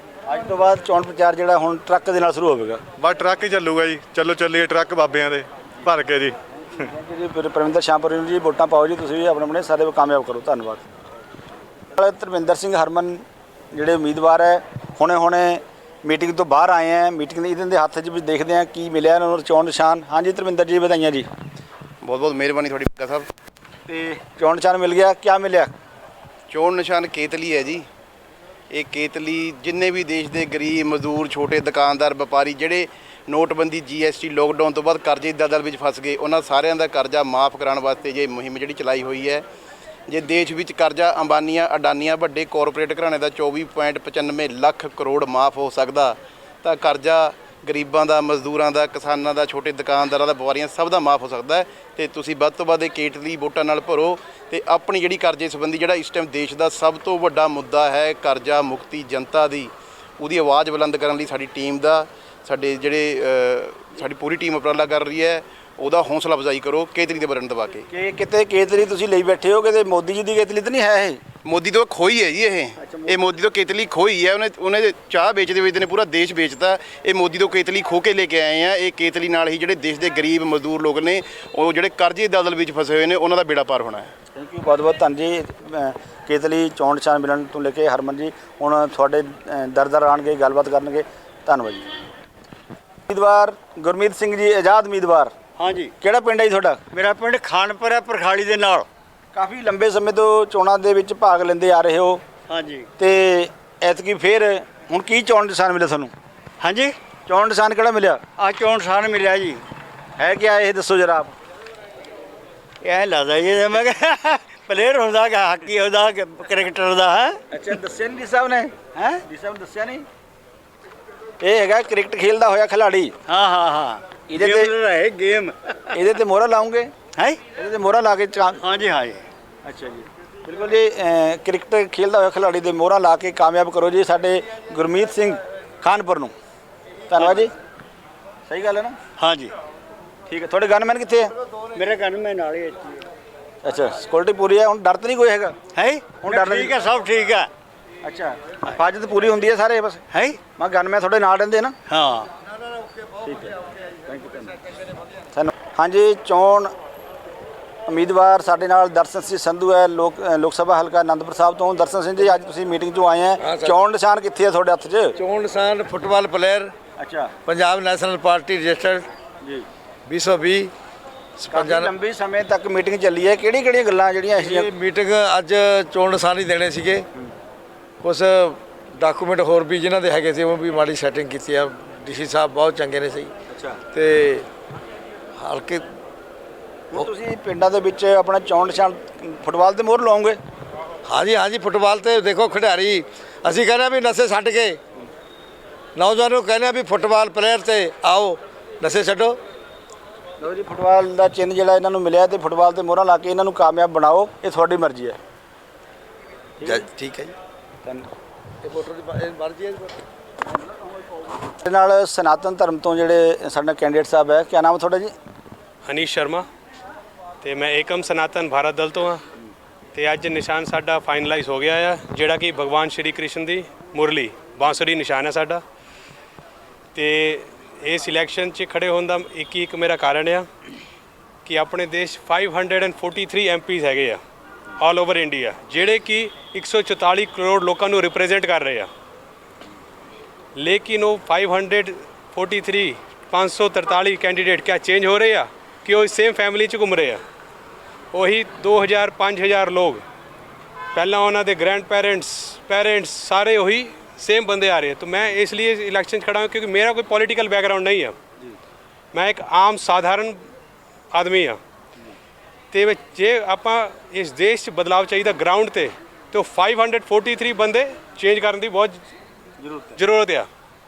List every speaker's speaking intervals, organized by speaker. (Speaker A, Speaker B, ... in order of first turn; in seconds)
Speaker A: 0.2-2.8, 6.7-10.8, 11.9-21.3, 23.9-25.7, 67.9-71.2, 72.8-73.2, 84.3-92.1, 93.1-95.3, 96.0-96.8, 99.3-102.2, 103.0-106.1, 107.3-108.3, 110.2-111.3, 117.5-120.0, 121.4-123.2, 124.3-124.7, 125.9-126.9, 127.5-128.6, 129.6-136.3, 137.1-137.5, 138.5-139.0, 140.3-141.3, 143.6-145.6, 146.2-146.8, 148.0-151.8, 153.2-154.6, 155.3-156.7, 157.9-165.2, 167.0-167.3, 169.4-169.7, 171.5-174.7, 183.5-183.8, 186.9-190.4, 200.4-205.2, 211.5-215.1, 269.6-270.0
Speaker B: 3.0-6.4
Speaker C: 22.0-23.3, 26.5-27.9, 28.7-39.4, 40.1-67.8, 71.5-84.1
Speaker D: 95.6-95.9, 96.9-98.9, 102.5-102.9, 106.6-106.9, 108.4-109.6, 112.8-117.4, 118.9-119.2, 123.3-125.7, 127.1-127.4, 128.6-129.2, 137.2-137.5, 139.2-139.5, 141.7-143.0, 145.7-147.5, 150.1-150.4, 151.9-152.3
Speaker E: 163.4-163.8, 165.2-166.7, 167.4-169.1, 170.1-170.7, 171.4-171.9, 174.4-177.0, 178.0-183.3, 183.9-184.5, 185.4-185.9, 191.1-194.8, 195.9-199.4, 206.6-207.3, 208.6-209.9
Speaker F: 215.8-216.4, 217.4-219.2, 219.9-225.6, 226.9-230.5, 231.4-234.2, 234.8-238.9, 240.6-247.2, 248.1-250.0, 250.9-258.1, 259.1-260.4, 261.1-261.6, 262.7-269.0, 270.0-270.5